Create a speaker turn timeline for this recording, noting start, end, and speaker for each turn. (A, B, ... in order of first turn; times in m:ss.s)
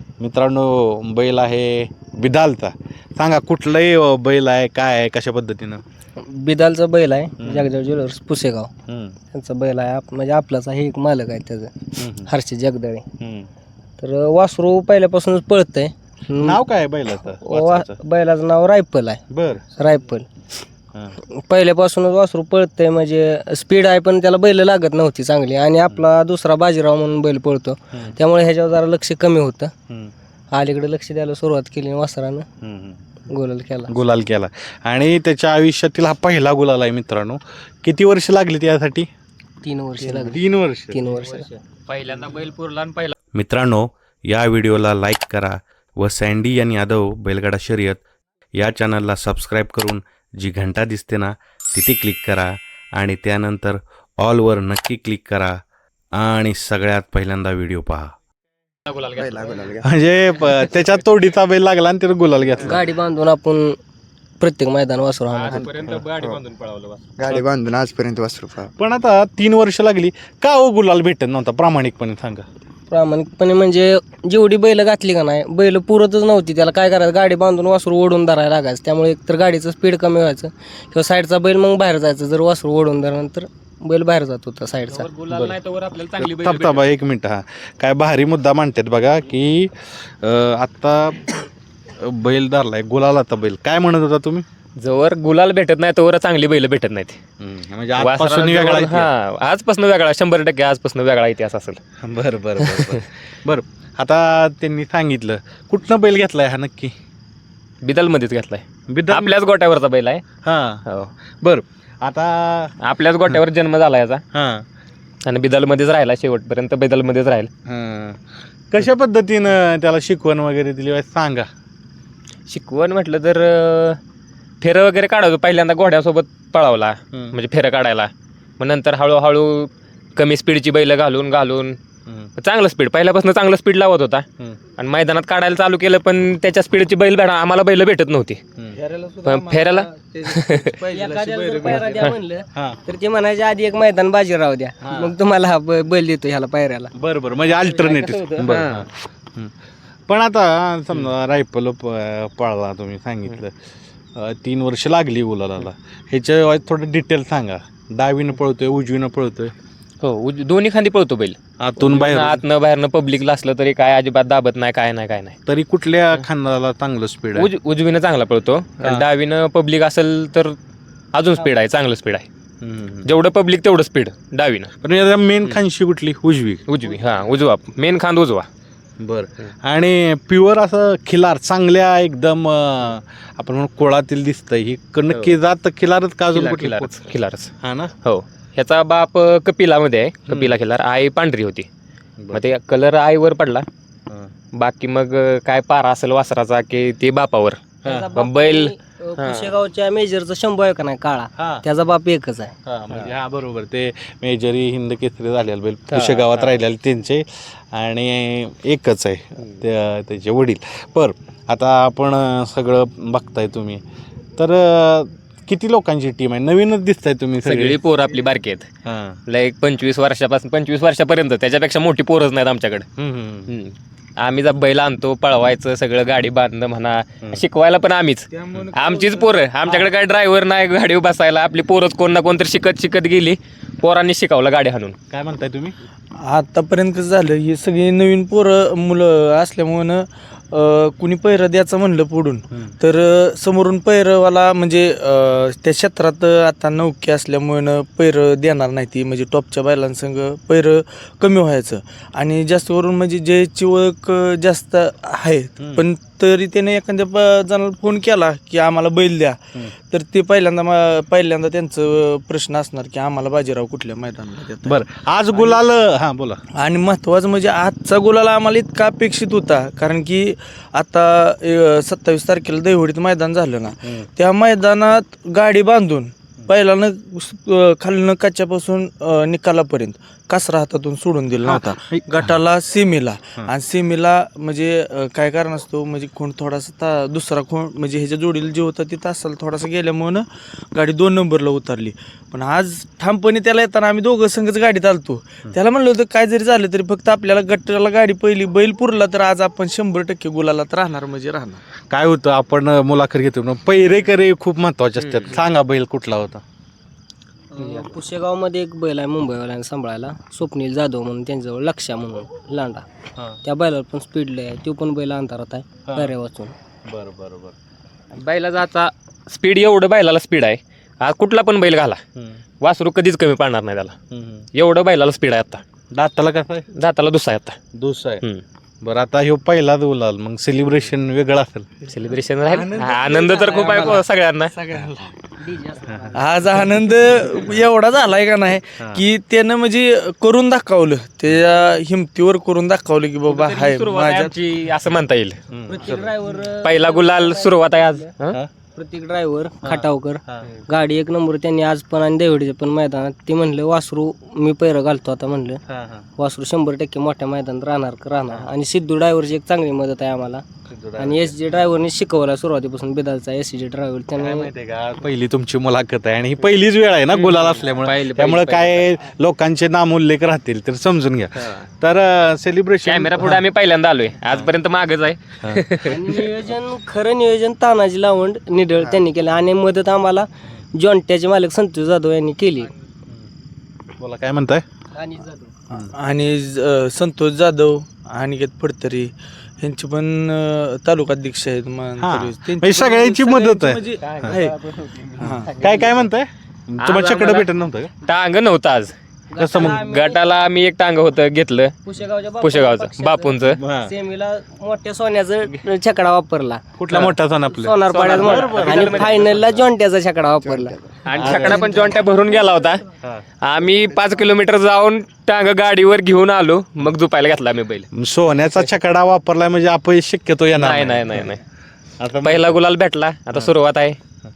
0:00.2-0:05.8 A
0:06.2-0:08.7 B
0:07.4-0:07.7 A
0:08.9-0:09.2 A
0:09.3-0:13.0 B
0:12.0-0:12.3 A
0:13.2-0:13.5 A
0:14.0-0:16.6 B
0:16.4-0:18.0 A
0:17.2-0:19.2 B
0:19.3-0:19.6 A
0:19.7-0:20.3 B
0:21.2-0:29.7 B
0:30.5-0:32.4 B
0:32.6-0:33.0 A
0:33.3-0:34.0 B
0:33.9-0:39.1 A
0:39.6-0:41.5 B
0:40.0-0:41.0 A
0:41.1-0:43.1 C
0:43.3-0:48.0 A
0:48.6-0:55.6 A
0:56.1-0:58.1 A
0:58.9-0:59.7 C
0:59.2-0:59.9 D
0:59.8-1:02.8 A
1:00.4-1:01.0 C
1:02.6-1:03.7 B
1:04.4-1:05.6 B
1:05.3-1:07.2 C
1:05.5-1:06.4 D
1:07.2-1:08.7 D
1:08.8-1:12.4 A
1:12.9-1:25.1 B
1:24.9-1:26.9 C
1:25.3-1:25.6 A
1:26.2-1:31.4 A
1:32.0-1:34.4 A
1:34.8-1:37.2 C
1:37.4-1:39.1 A
1:38.0-1:41.8 C
1:42.0-1:46.9 A
1:42.6-1:43.0 C
1:47.8-1:50.2 C
1:48.9-1:49.3 A
1:50.4-1:50.8 A
1:50.8-1:51.1 C
1:51.4-1:52.7 A
1:52.8-1:54.2 C
1:54.3-1:54.6 A
1:55.2-1:57.5 C
1:57.6-2:01.5 A
2:02.5-2:04.0 C
2:04.6-2:11.8 C
2:12.0-2:12.3 A
2:12.4-2:14.2 C
2:14.8-2:18.4 C
2:18.7-2:22.2 E
2:19.2-2:20.7 C
2:20.9-2:26.9 B
2:22.5-2:22.8 A
2:24.8-2:25.1 A
2:26.9-2:29.5 A
2:27.6-2:28.8 C
2:30.1-2:33.5 A
2:34.1-2:39.5 A
2:40.0-2:45.4 C
2:41.6-2:42.4 A
2:45.4-2:47.5 A
2:47.3-2:50.6 C
2:51.1-2:52.3 C
2:52.6-2:53.1 A
2:53.0-2:54.7 C
2:54.8-2:56.6 A
2:56.7-2:58.5 C
2:59.0-3:07.0 A
3:05.1-3:05.4 C
3:06.3-3:07.5 C
3:07.6-3:07.9 A
3:08.0-3:11.7 C
3:10.3-3:10.5 A
3:12.2-3:12.4 A
3:12.3-3:13.7 C
3:14.5-3:19.5 C
3:17.8-3:22.5 B
3:21.4-3:21.6 A
3:22.6-3:33.8 A
3:25.9-3:26.5 C
3:34.4-3:37.8 A
3:37.4-3:38.7 C
3:38.8-3:39.2 A
3:39.3-3:42.8 C
3:43.0-3:43.5 A
3:43.5-3:55.0 C
3:48.3-3:49.3 E
3:55.1-3:55.7 A
3:56.1-4:25.6 E
4:02.5-4:02.8 A
4:15.6-4:15.8 A
4:24.6-4:26.4 A
4:26.5-5:01.6 E
4:41.4-4:42.3 A
5:01.9-5:06.4 A
5:05.0-5:05.4 C
5:07.5-5:12.8 B
5:07.6-5:07.9 C
5:13.4-5:16.5 B
5:15.8-5:16.1 A
5:16.8-5:17.5 A
5:18.1-5:22.0 C
5:22.2-5:22.4 A
5:22.6-5:23.9 C
5:24.1-5:24.5 A
5:24.5-5:25.6 C
5:25.9-5:26.7 A
5:26.7-5:27.6 C
5:27.7-5:28.2 A
5:28.8-5:31.7 A
5:31.9-5:34.5 C
5:32.5-5:33.9 A
5:33.1-5:33.8 B
5:34.6-5:35.1 A
5:35.4-5:36.5 B
5:36.1-5:44.4 E
5:38.8-5:39.0 A
5:43.3-5:45.4 C
5:45.5-5:46.1 A
5:45.7-5:48.1 B
5:46.6-5:48.4 C
5:48.7-5:55.6 B
5:49.6-5:50.5 A
5:55.7-5:56.1 A
5:56.2-6:00.4 B
6:00.7-6:01.3 A
6:01.0-6:04.5 B
6:04.2-6:13.4 A
6:07.1-6:08.9 C
6:11.4-6:11.7 C
6:12.8-6:16.2 C
6:15.8-6:22.7 B
6:24.0-6:24.6 A
6:24.9-6:25.6 B
6:25.7-6:34.5 E
6:32.0-6:34.4 A
6:34.0-6:34.4 C
6:34.3-6:36.0 B
6:35.2-6:35.5 E
6:35.6-6:37.9 A
6:36.8-6:37.5 C
6:38.0-6:38.9 C
6:39.3-6:40.2 B
6:39.4-6:39.8 A
6:39.6-6:41.8 C
6:41.8-6:46.6 B
6:42.4-6:43.6 C
6:43.4-6:43.9 A
6:46.8-6:49.6 A
6:46.9-6:47.2 C
6:47.5-6:52.0 B
6:47.9-6:49.3 C
6:50.4-6:50.8 D
6:51.0-6:52.8 C
6:51.1-6:51.7 A
6:53.4-6:57.9 C
6:57.9-7:01.3 A
7:00.5-7:01.4 C
7:02.0-7:02.6 A
7:02.2-7:04.0 C